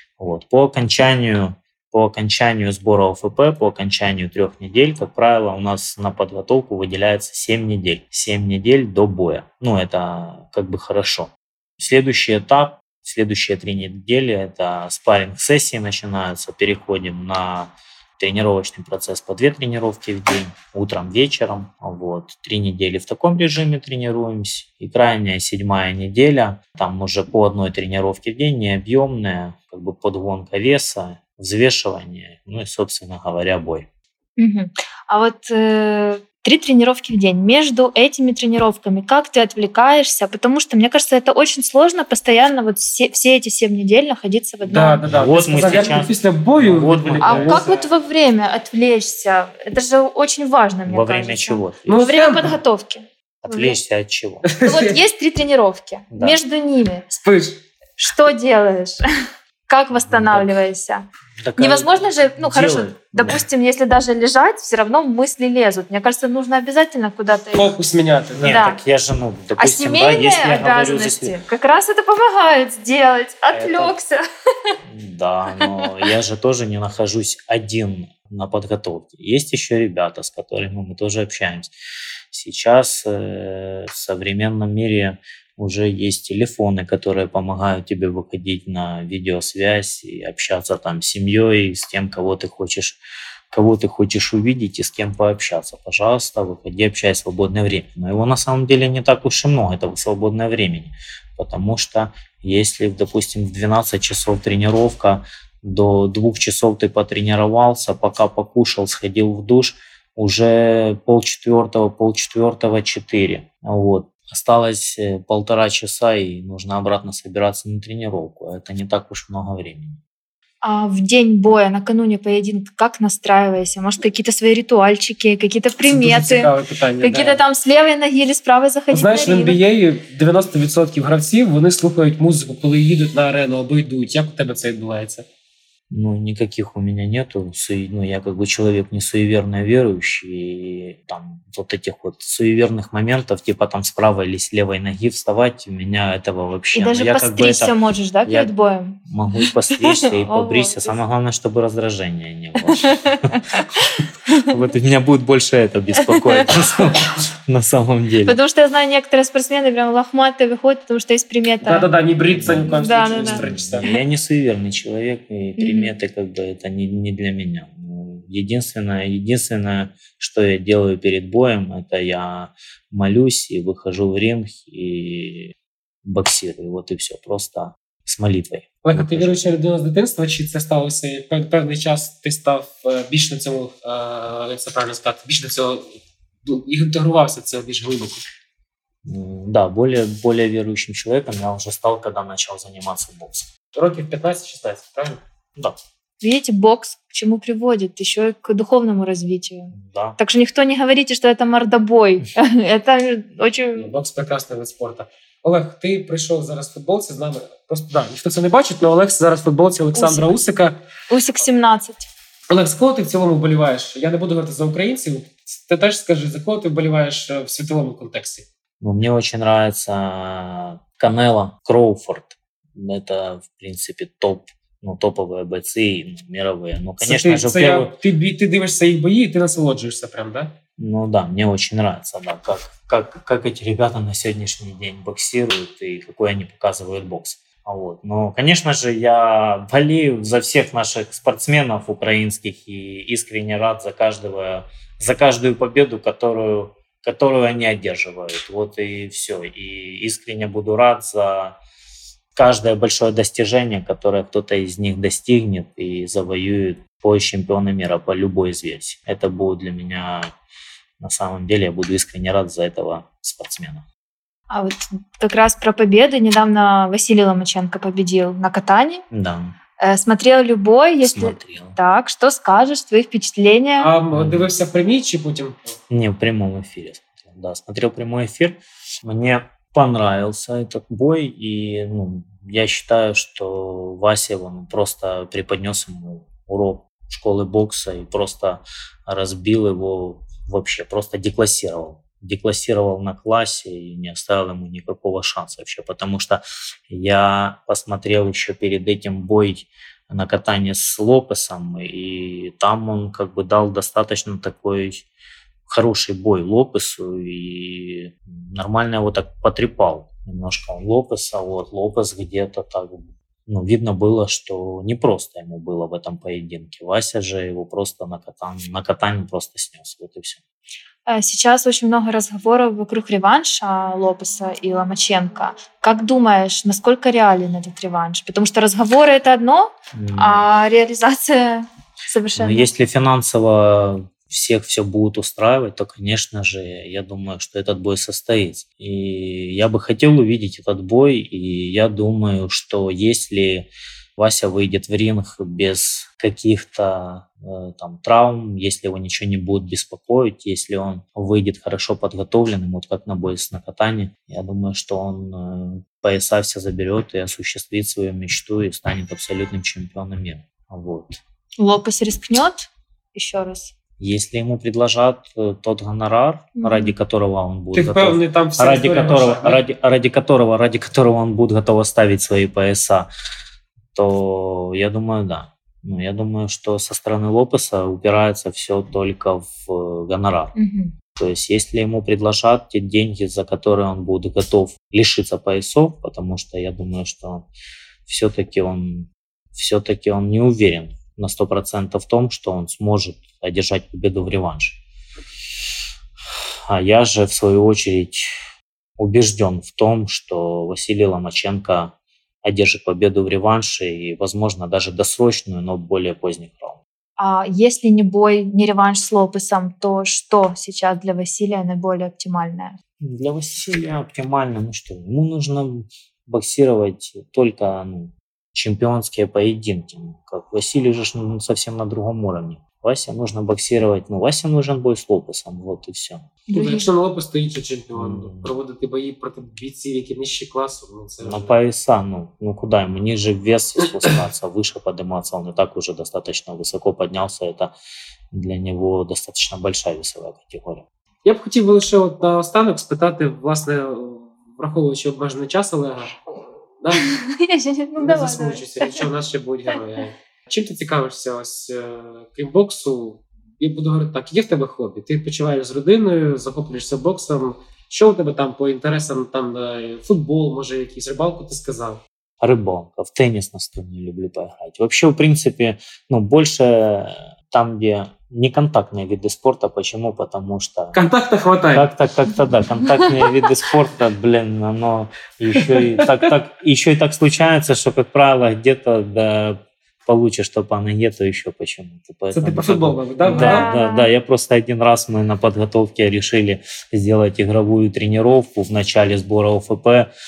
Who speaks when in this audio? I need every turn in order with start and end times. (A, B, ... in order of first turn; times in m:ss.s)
0:00.2-0:33.9 A
0:34.4-0:45.0 B
0:44.6-0:47.9 C
0:45.1-0:47.6 A
0:47.2-0:53.8 B
0:50.8-0:52.1 A
0:51.9-0:52.6 C
0:53.4-0:54.5 A
0:54.4-0:55.0 C
0:54.6-0:57.1 B
0:56.1-0:56.4 A
0:57.2-0:57.6 C
0:58.0-0:59.0 B
0:59.7-1:07.8 B
0:59.9-1:00.5 A
1:01.4-1:03.4 A
1:07.5-1:08.6 C
1:08.3-1:11.4 A
1:08.4-1:08.8 B
1:09.6-1:14.7 B
1:13.5-1:13.9 A
1:14.8-1:21.7 A
1:15.6-1:15.9 B
1:22.3-1:33.0 A
1:33.5-2:00.0 A
2:00.6-2:09.6 B
2:05.8-2:07.4 C
2:08.9-2:15.2 C
2:15.9-2:27.7 A
2:26.7-2:31.0 B
2:28.2-2:28.5 A
2:29.0-2:33.6 A
2:32.6-2:33.4 B
2:34.4-2:38.4 A
2:36.0-2:36.5 B
2:38.2-2:41.9 B
2:41.6-2:43.9 C
2:42.3-2:59.4 A
2:42.6-2:44.0 B
2:45.6-2:45.9 B
2:58.8-3:08.2 C
3:09.0-3:13.5 A
3:13.7-3:15.2 C
3:16.2-3:23.9 B
3:19.7-3:20.2 A
3:23.8-3:30.8 C
3:29.9-3:30.3 B
3:31.1-3:32.1 B
3:32.5-3:38.4 C
3:38.8-3:47.9 A
3:47.0-3:50.5 C
3:50.8-4:11.6 A
4:12.3-4:20.3 A
4:21.0-4:23.8 A
4:24.5-4:29.0 B
4:29.1-4:29.5 A
4:29.8-4:33.9 B
4:31.0-4:31.8 A
4:33.8-4:35.7 C
4:34.1-4:34.5 A
4:35.9-5:05.0 A
5:05.7-5:20.4 A
5:21.1-5:32.7 B
5:29.9-5:30.4 A
5:32.4-6:01.2 A
6:01.6-6:03.7 B
6:04.0-6:13.1 A
6:06.6-6:06.9 B
6:07.7-6:09.6 C
6:13.9-6:20.5 A
6:20.5-6:20.9 B
6:21.1-6:27.5 A
6:28.0-6:34.8 A
6:36.7-6:38.3 A
6:39.0-6:46.8 A
6:47.2-6:52.8 B
6:53.0-7:06.3 A
7:06.5-7:06.9 B
7:06.5-7:11.6 C
7:07.9-7:08.5 A
7:11.2-7:17.7 A
7:18.3-7:20.8 A
7:21.2-7:26.2 C
7:26.8-7:27.2 C
7:26.9-7:29.0 B
7:28.0-7:42.0 C
7:42.4-7:50.9 A
7:50.9-7:51.9 C
7:51.7-8:10.1 A
7:55.6-7:56.3 C
8:02.3-8:03.7 C
8:03.3-8:04.1 B